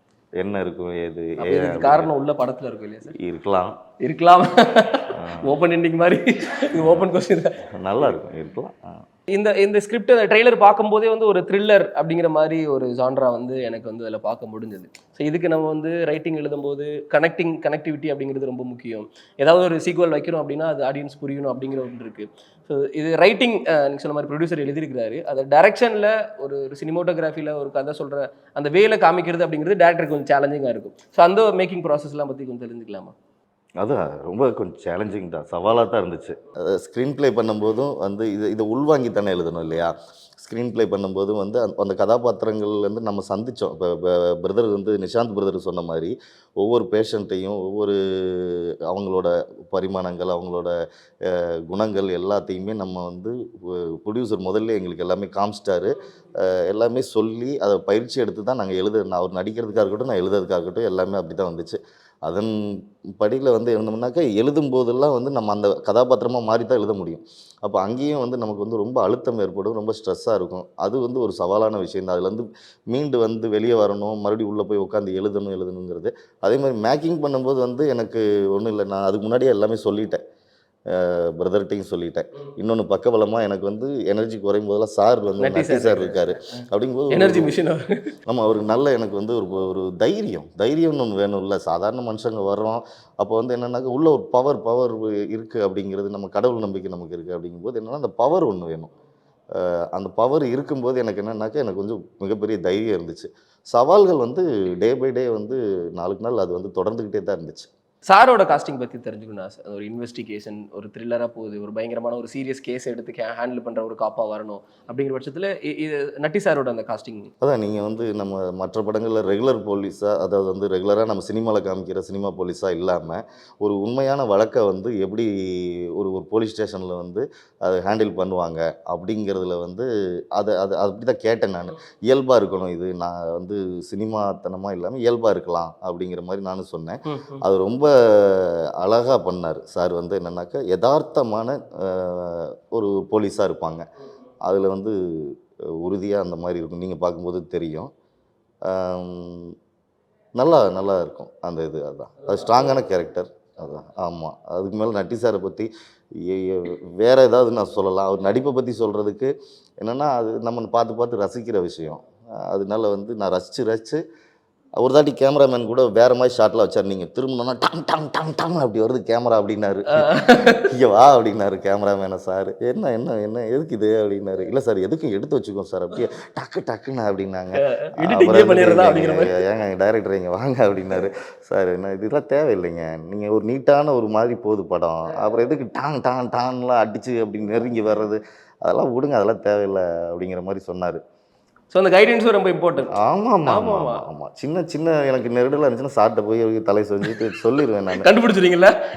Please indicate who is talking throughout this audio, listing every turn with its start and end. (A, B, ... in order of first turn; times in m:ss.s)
0:00.4-0:02.1 A
0:01.4-0:03.2 B
0:03.2-0:03.7 A
0:04.0-0:08.1 B
0:05.1-0:05.5 A
0:06.8-0:07.1 A
0:07.8-0:09.0 A
0:09.3-0:33.1 B
0:33.8-1:02.5 A
1:03.2-1:20.2 A
1:20.9-1:27.6 A
1:25.4-1:26.3 B
1:27.1-1:28.1 B
1:28.3-1:38.9 A
1:39.6-1:47.7 A
1:48.1-1:57.3 B
1:57.4-2:23.8 A
2:17.1-2:17.4 B
2:24.4-2:27.9 A
2:28.7-2:29.5 A
2:30.4-2:35.7 A
2:36.2-2:44.0 A
2:44.8-3:11.0 A
2:49.9-2:50.7 B
2:57.5-2:59.4 B
3:11.7-3:12.9 B
3:12.9-3:18.1 A
3:13.4-3:14.0 B
3:18.0-3:18.7 B